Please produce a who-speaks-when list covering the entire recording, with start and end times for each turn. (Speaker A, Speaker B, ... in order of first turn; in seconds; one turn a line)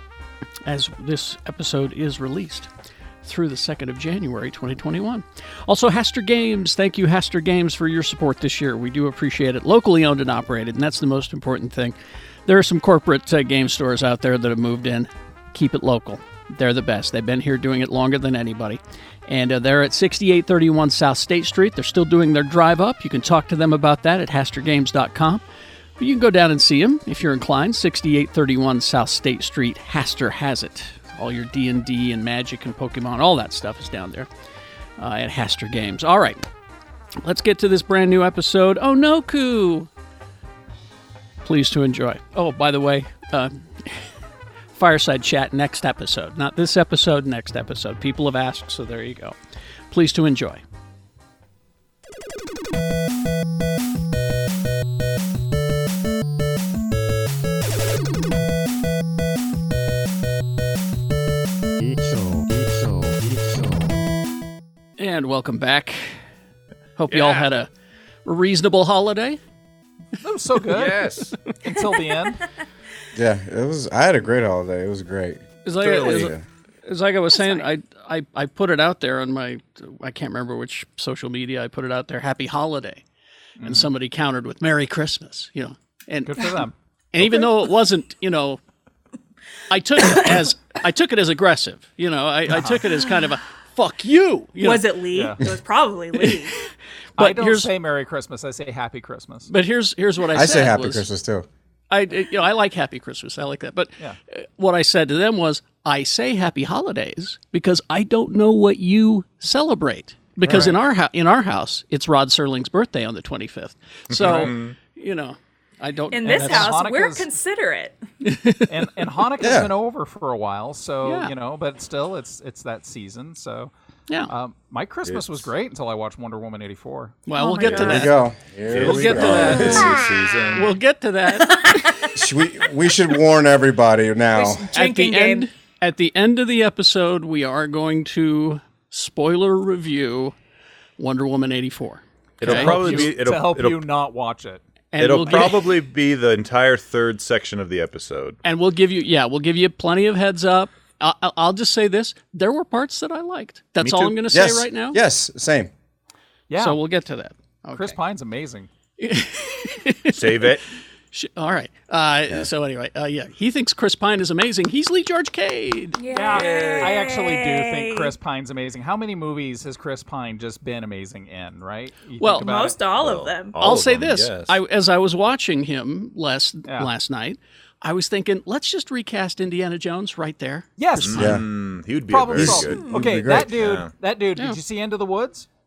Speaker A: 0.6-2.7
Speaker A: 3.2-11.9
Speaker A: 12.4-25.4
Speaker A: 26.0-34.3
Speaker A: 35.0-36.4
Speaker A: 37.2-39.9
Speaker A: 41.4-44.1
Speaker A: 44.7-49.3
Speaker A: 49.9-50.6
Speaker A: 65.0-66.2
Speaker A: 67.0-67.7
Speaker A: 68.2-69.4
Speaker B: 70.2-72.4
Speaker C: 70.7-71.3
Speaker D: 73.1-76.4
Speaker A: 75.6-76.3
Speaker A: 76.8-83.0
Speaker E: 77.3-77.7
Speaker B: 83.6-83.9
Speaker A: 83.6-86.5
Speaker B: 86.3-86.7
Speaker A: 87.1-88.6
Speaker A: 89.7-94.9
Speaker E: 94.6-96.5
Speaker B: 95.1-95.4
Speaker A: 96.2-97.7
Speaker B: 97.2-99.5
Speaker A: 99.5-101.1
Speaker D: 100.3-101.5
Speaker A: 101.9-116.8
Speaker D: 110.4-110.7
Speaker C: 114.1-114.8
Speaker B: 114.2-114.5
Speaker E: 116.1-118.0
Speaker B: 116.2-117.3
Speaker A: 118.2-118.7
Speaker B: 118.7-123.7
Speaker D: 119.4-119.7
Speaker A: 121.0-121.3
Speaker B: 124.3-127.2
Speaker C: 125.0-125.4
Speaker A: 127.2-128.1
Speaker E: 127.3-128.2
Speaker D: 127.6-129.9
Speaker C: 128.7-130.7
Speaker A: 128.8-130.0
Speaker B: 128.8-129.9
Speaker A: 130.5-131.9
Speaker E: 131.4-132.1
Speaker D: 132.1-134.7
Speaker E: 134.3-135.5
Speaker A: 134.7-140.3
Speaker A: 141.0-143.1
Speaker C: 142.4-143.8
Speaker B: 142.4-144.6
Speaker A: 144.9-145.7
Speaker C: 145.0-148.4
Speaker A: 148.4-155.0
Speaker C: 153.8-154.2
Speaker D: 154.3-155.7
Speaker B: 156.5-156.8
Speaker A: 156.5-158.0
Speaker B: 157.7-158.7
Speaker A: 159.0-160.6
Speaker C: 160.1-160.6
Speaker A: 161.1-166.0
Speaker E: 166.0-168.1
Speaker B: 166.1-172.8
Speaker C: 166.3-167.1
Speaker A: 172.2-172.5
Speaker E: 172.4-173.6
Speaker C: 173.0-174.6
Speaker A: 173.6-181.4
Speaker B: 176.7-176.9
Speaker B: 180.8-181.5
Speaker C: 181.0-183.9
Speaker D: 181.2-181.4
Speaker B: 182.1-185.5
Speaker D: 182.3-183.6